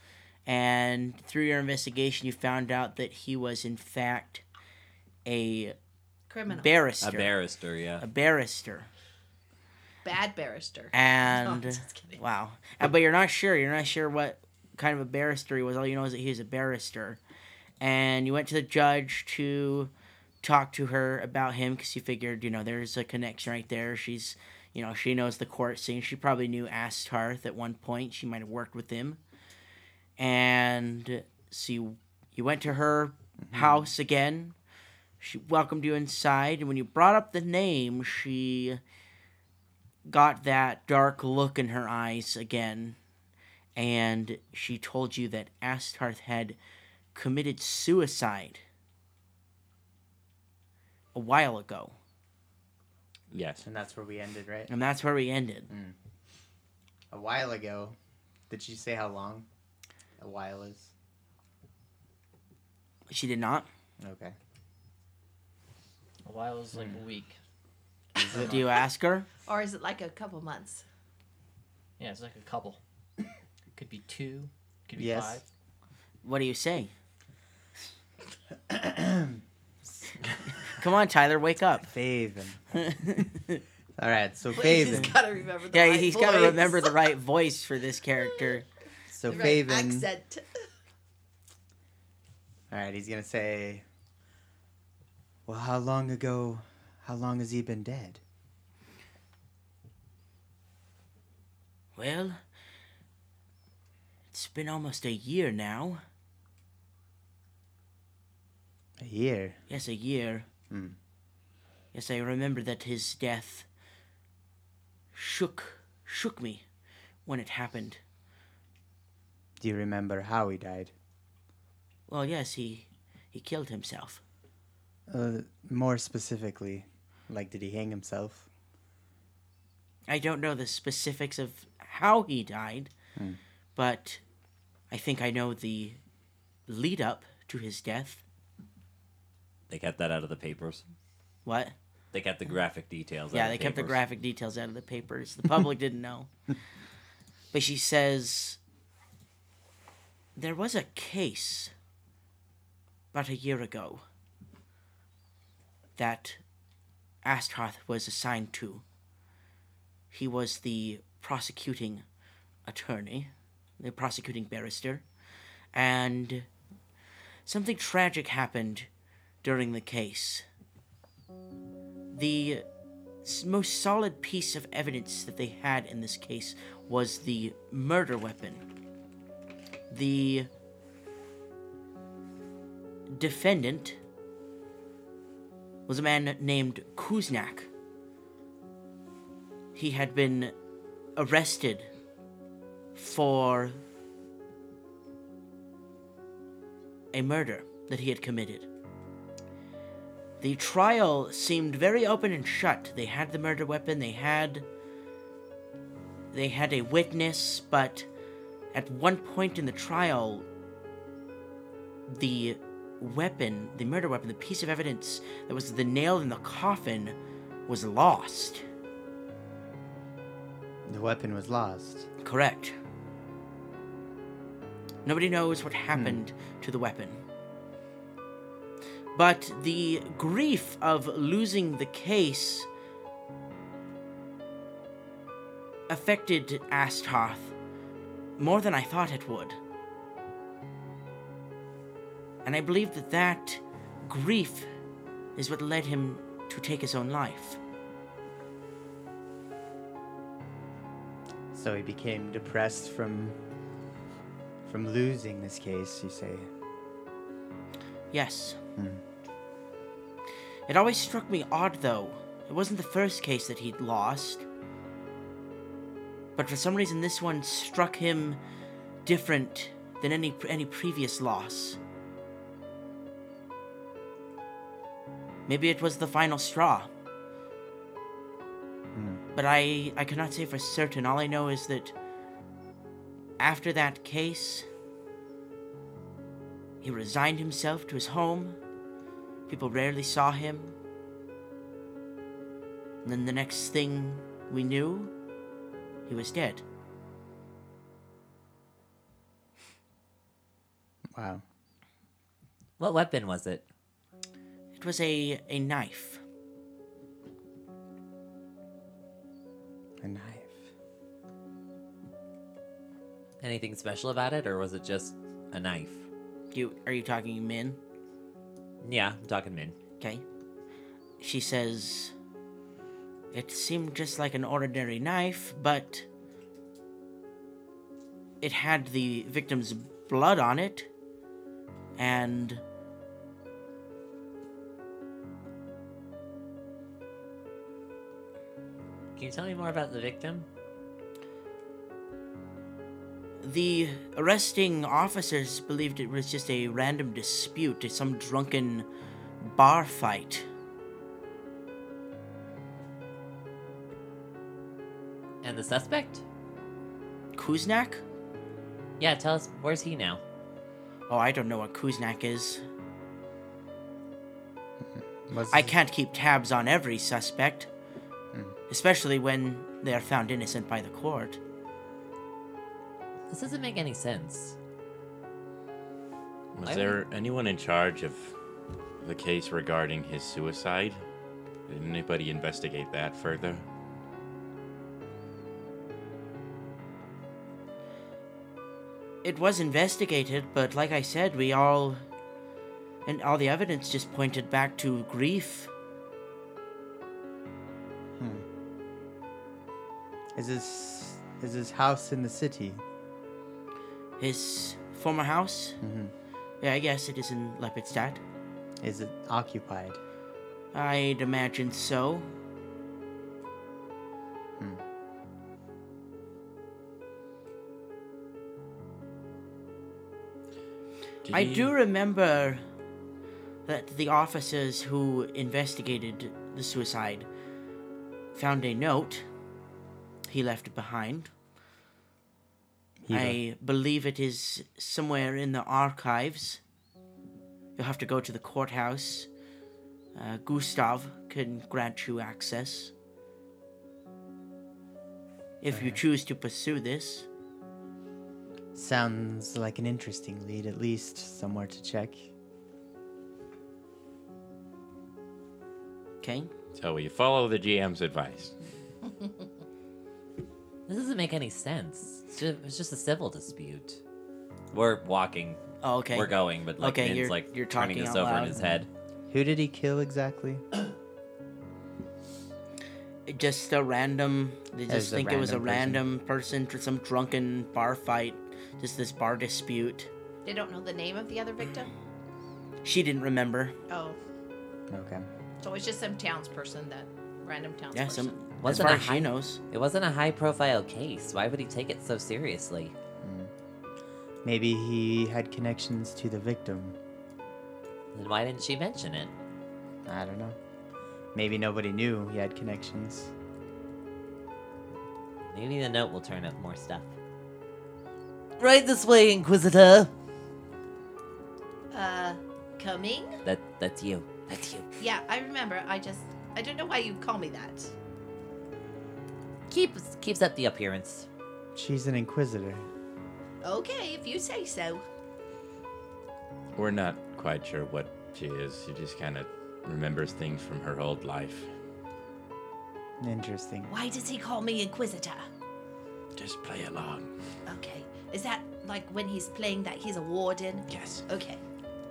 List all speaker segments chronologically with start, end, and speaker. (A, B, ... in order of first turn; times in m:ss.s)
0:00.5-0:04.4 A
0:05.2-0:05.8 A
0:06.3-0:06.7 B
0:06.5-0:07.4 A
0:07.0-0:08.0 C
0:08.0-0:08.9 A
0:10.0-0:12.2 B
0:10.9-0:17.2 A
0:17.8-0:29.2 A
0:30.2-0:34.6 A
0:33.4-0:33.9 D
0:35.2-0:38.8 A
0:40.1-0:43.0 A
0:43.8-0:46.6 A
0:47.2-0:48.6 A
0:51.1-0:52.0 A
0:53.3-0:53.7 E
0:53.6-0:54.7 D
0:54.7-0:55.7 A
0:55.7-0:56.0 D
0:57.1-0:58.0 D
0:58.5-0:59.5 D
1:00.2-1:00.9 D
1:03.1-1:03.7 A
1:04.0-1:04.4 D
1:06.2-1:07.4 F
1:08.2-1:08.6 D
1:08.4-1:09.3 A
1:09.5-1:10.8 B
1:12.0-1:12.8 F
1:13.7-1:15.4 F
1:15.0-1:15.4 D
1:16.2-1:16.9 A
1:18.7-1:20.1 D
1:20.8-1:21.9 A
1:21.8-1:22.6 D
1:22.7-1:23.6 A
1:24.0-1:25.2 D
1:24.5-1:27.0 B
1:24.6-1:25.1 A
1:25.7-1:28.7 A
1:28.3-1:28.6 B
1:29.1-1:30.1 D
1:29.3-1:30.6 B
1:32.7-1:33.9 D
1:35.5-1:38.2 D
1:42.0-1:42.4 A
1:44.3-1:46.0 A
1:49.0-1:49.6 D
1:49.7-1:50.5 A
1:50.7-1:51.0 D
1:51.9-1:53.7 A
1:55.1-1:56.6 A
1:57.3-1:58.0 A
1:59.6-2:00.9 D
2:02.1-2:04.2 A
2:05.1-2:08.5 D
2:10.1-2:12.9 A
2:13.8-2:14.2 A
2:14.9-2:16.0 A
2:16.7-2:18.2 A
2:19.7-2:20.8 C
2:21.4-2:21.7 A
2:22.1-2:24.0 C
2:23.3-2:26.3 A
2:27.5-2:28.6 A
2:30.4-2:31.7 A
2:33.1-2:34.0 A
2:36.0-2:36.4 A
2:37.2-2:38.8 A
2:40.1-2:42.0 A
2:42.6-2:45.1 A
2:45.7-2:46.5 A
2:47.5-2:48.9 A
2:49.4-2:50.4 A
2:52.1-2:52.7 A
2:53.2-2:58.6 A
2:59.9-3:00.5 A
3:03.1-3:04.0 A
3:05.9-3:07.7 A
3:09.8-3:10.5 A
3:11.2-3:11.9 A
3:13.0-3:13.8 A
3:17.1-3:18.7 A
3:20.4-3:24.7 A
3:26.3-3:28.1 A
3:28.7-3:30.5 A
3:32.1-3:38.6 A
3:40.9-3:42.1 D
3:42.2-3:42.8 A
3:45.0-3:47.2 A
3:45.9-3:46.2 D
3:49.2-3:52.7 A
3:55.9-3:57.5 A
3:58.4-3:59.6 A
4:02.4-4:04.7 A
4:05.4-4:07.6 A
4:11.5-4:13.4 D
4:14.6-4:16.5 D
4:18.1-4:18.6 A
4:18.8-4:19.0 D
4:20.7-4:24.5 A
4:26.4-4:28.4 A
4:29.0-4:31.8 A
4:35.5-4:36.9 A
4:39.0-4:39.2 D
4:39.4-4:41.9 A
4:43.4-4:44.7 A
4:46.8-4:48.6 A
4:49.5-4:50.7 A
4:53.0-4:55.1 A
4:56.1-4:56.6 A
5:01.1-5:01.4 D
5:02.8-5:03.6 C
5:04.8-5:06.2 A
5:10.0-5:10.6 D
5:13.4-5:16.0 C
5:16.5-5:17.8 A
5:18.8-5:19.8 C
5:21.2-5:22.1 A
5:23.3-5:26.1 A
5:28.4-5:30.9 A
5:32.0-5:32.6 A
5:39.2-5:40.5 C
5:43.4-5:48.9 A
5:49.4-5:50.5 A
5:55.4-5:56.2 C
5:57.4-5:58.0 A
5:59.0-6:00.2 C
6:01.1-6:02.6 A
6:04.8-6:05.7 D
6:05.5-6:07.7 A
6:08.7-6:11.4 A
6:13.3-6:14.6 C
6:16.6-6:18.4 E
6:16.6-6:17.0 C
6:19.0-6:21.0 E
6:21.7-6:23.6 E
6:29.2-6:32.0 A
6:33.1-6:35.7 A
6:38.2-6:38.4 D
6:40.4-6:42.8 D
6:44.2-6:45.8 A
6:45.8-6:46.1 D
6:46.6-6:48.2 A
6:48.8-6:50.0 D
6:50.7-6:52.3 A
7:01.2-7:01.7 E
7:01.3-7:02.6 A
7:03.7-7:07.3 A
7:08.4-7:09.3 A
7:10.3-7:11.3 A
7:13.0-7:13.4 D
7:13.1-7:16.6 A
7:17.8-7:19.3 A
7:20.2-7:22.9 A
7:25.6-7:27.3 A
7:25.7-7:26.0 D
7:28.8-7:32.3 D
7:36.2-7:36.5 A
7:36.8-7:38.5 E
7:40.9-7:44.0 C
7:44.7-7:48.9 C
7:45.8-7:48.6 A
7:49.3-7:50.6 D
7:53.3-8:00.1 A
7:54.9-7:56.0 D
8:00.4-8:01.9 B
8:02.8-8:03.8 A
8:03.9-8:04.2 B
8:04.9-8:05.3 D
8:05.6-8:08.4 B
8:07.9-8:09.6 A
8:08.6-8:12.9 C
8:13.2-8:13.5 D
8:14.4-8:17.0 D
8:18.1-8:19.3 C
8:20.1-8:20.6 D
8:21.3-8:23.3 D
8:25.5-8:27.1 C
8:28.6-8:30.1 C
8:31.9-8:33.3 B
8:33.4-8:34.9 C
8:35.0-8:37.9 B
8:39.7-8:41.3 C
8:41.8-8:42.9 D
8:43.6-8:45.0 B
8:46.8-8:51.7 E
8:53.2-8:53.9 D
8:53.9-8:55.4 B
8:56.4-8:57.3 E
8:57.7-9:01.6 B
9:00.9-9:01.2 E